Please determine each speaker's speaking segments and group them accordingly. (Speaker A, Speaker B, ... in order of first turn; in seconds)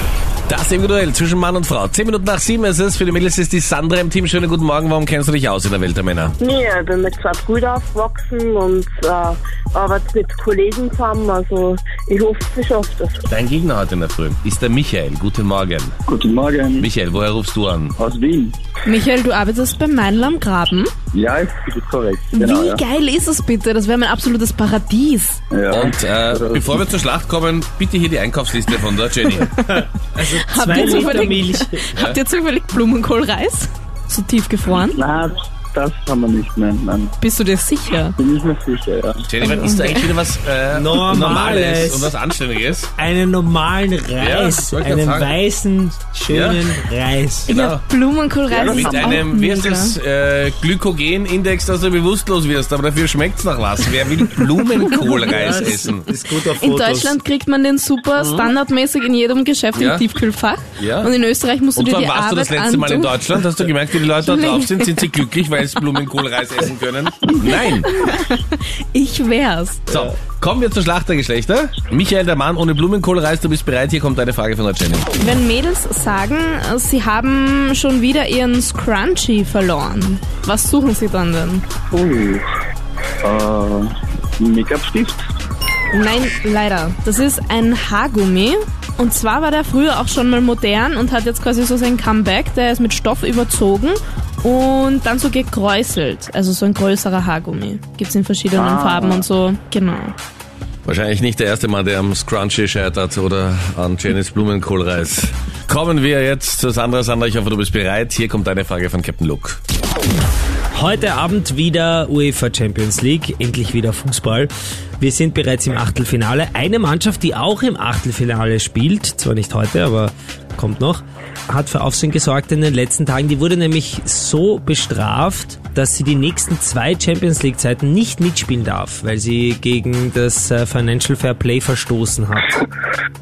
Speaker A: 0.5-6.3, 13.3-15.9, 16.8-18.0, 25.7-29.5, 31.9-32.2, 39.3-42.9, 44.2-45.3, 46.3-46.7, 47.5-47.8, 48.6-56.1, 58.2-58.5, 59.7-60.0, 60.8-61.1, 61.8-67.9, 69.9-75.1, 100.9-109.6
Speaker B: 6.4-13.2
Speaker C: 16.1-16.9, 18.0-18.6, 21.1-22.8, 25.5-26.8, 34.7-37.1, 38.2-39.3, 48.5-49.3, 81.9-82.4, 83.2-85.2, 98.5-99.3
Speaker D: 18.9-20.9, 22.3-25.4, 30.4-35.0, 37.2-38.1, 39.4-40.1, 47.5-50.0, 56.6-63.4, 64.2-65.2, 67.4-69.8, 75.2-81.6, 85.9-100.1
Speaker E: 29.7-31.9, 40.7-42.1, 43.0-47.5, 55.2-57.2, 110.7-132.7